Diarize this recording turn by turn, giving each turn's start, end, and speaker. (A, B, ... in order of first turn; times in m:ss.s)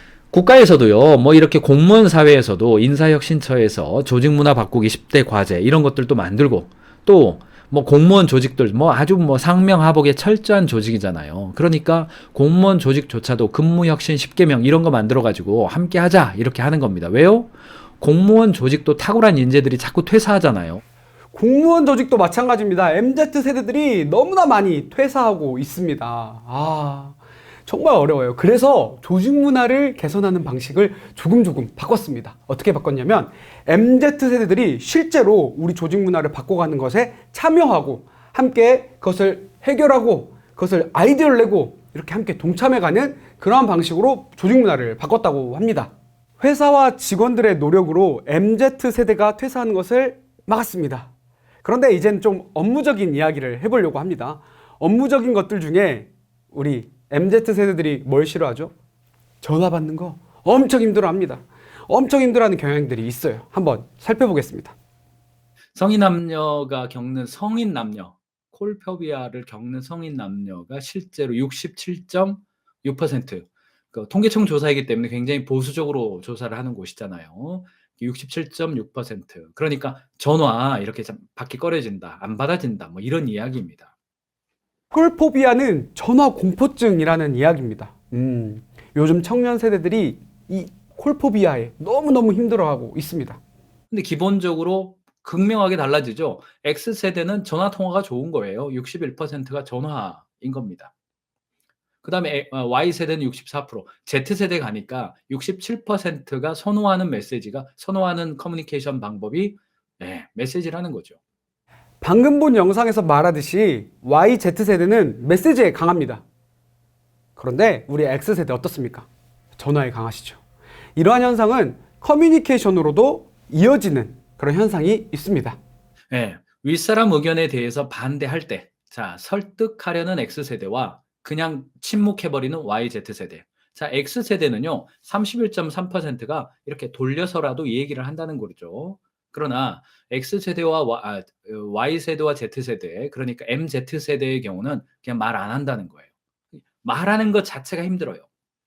0:00.3-0:20.8 A
0:21.3-0:27.2 B
0:27.7-0:51.1 B
0:51.6-0:58.7 B
0:59.4-1:04.7 B
1:05.7-1:23.9 A
1:24.9-1:33.4 B
1:33.9-1:40.9 A
1:42.0-1:51.2 A
1:52.0-1:56.2 B
1:57.4-2:00.4 B
2:01.0-2:05.6 B
2:06.1-2:26.1 A
2:26.8-2:28.3 A